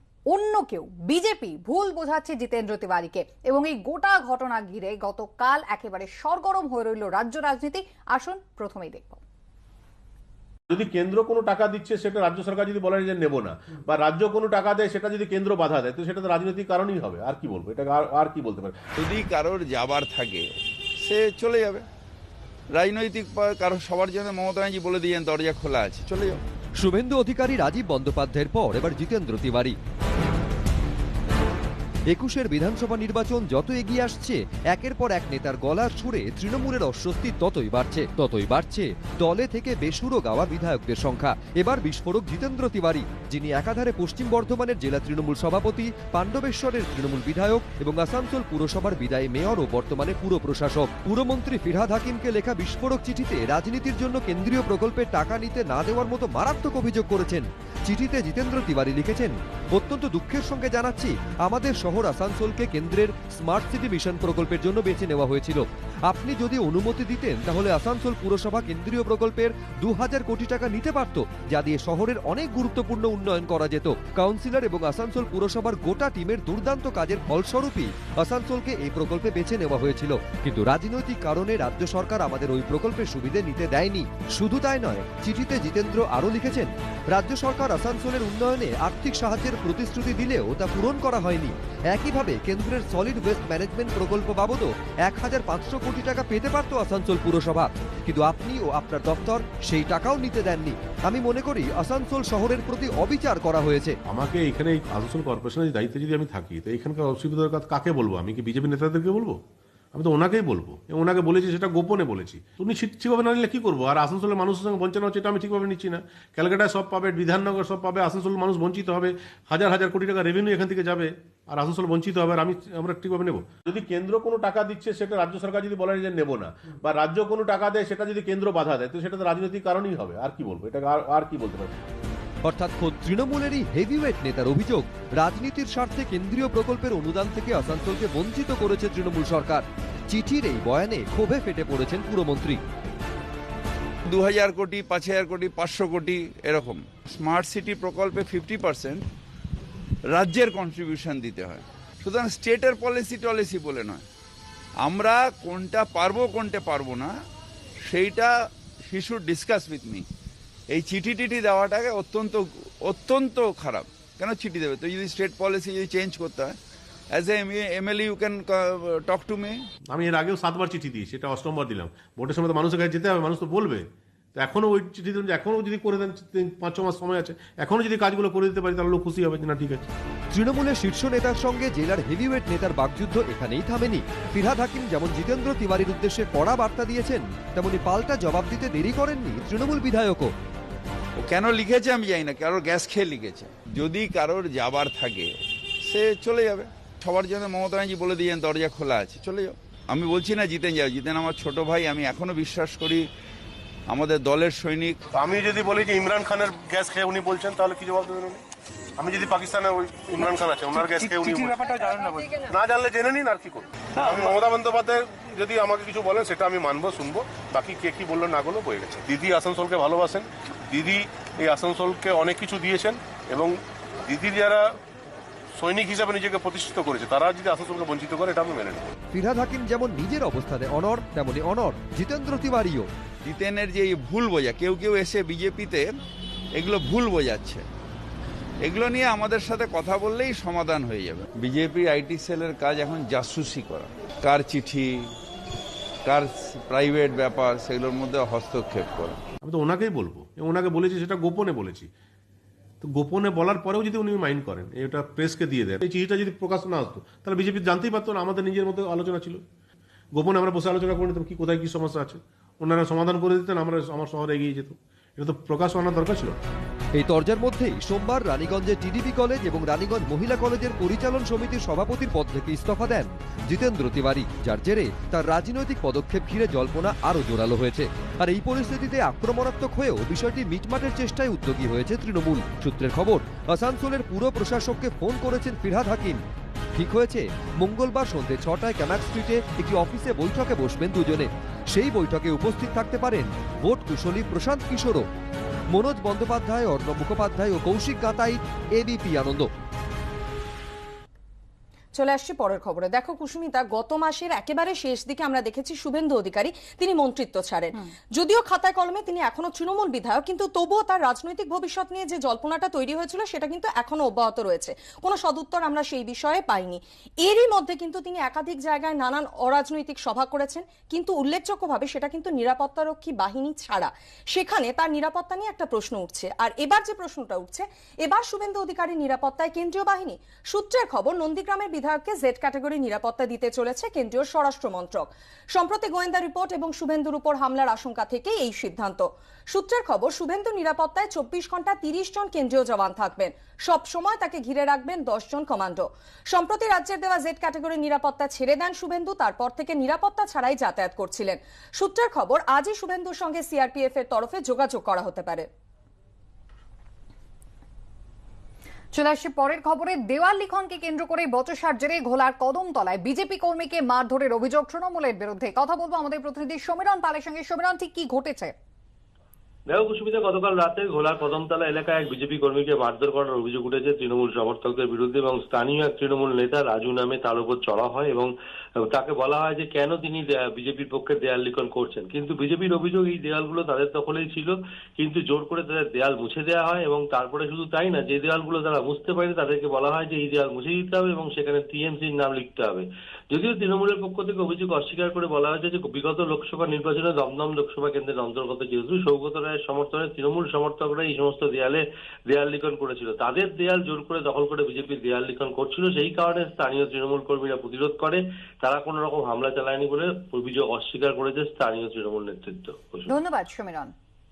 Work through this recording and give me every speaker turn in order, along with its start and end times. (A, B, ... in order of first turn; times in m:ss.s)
0:00.3-0:09.2 A
0:10.7-0:18.8 B
0:19.0-0:20.4 C
0:21.0-0:21.8 C
0:22.7-0:26.4 C
0:26.8-0:29.8 D
0:32.1-1:44.0 D
1:44.1-1:49.4 B
1:49.9-2:11.7 B
2:12.4-2:22.6 D
2:24.1-2:29.1 C
2:30.1-2:34.0 C
2:34.8-2:37.1 C
2:37.9-2:38.3 C
2:38.9-2:40.0 C
2:40.7-2:46.6 C
2:47.1-2:49.6 C
2:49.9-2:53.8 B
2:54.4-2:59.9 B
3:00.3-3:10.3 D
3:11.2-3:15.3 C
3:15.8-3:23.1 C
3:23.9-3:25.0 C
3:25.1-3:28.4 B
3:29.0-3:43.5 B
3:44.1-3:44.6 B
3:45.6-3:48.9 B
3:49.1-3:52.9 D
3:53.2-3:55.8 C
3:56.6-3:57.6 C
3:58.6-4:04.9 C
4:06.0-4:09.2 C
4:09.4-4:11.9 B
4:12.8-4:19.4 B
4:20.1-4:26.4 B
4:26.9-4:46.2 D
4:46.7-4:55.0 D
4:55.7-4:59.5 D
5:01.9-5:55.4 E
5:58.9-6:08.5 A
6:09.7-6:18.3 F
6:18.9-6:53.1 F
6:53.1-6:53.9 A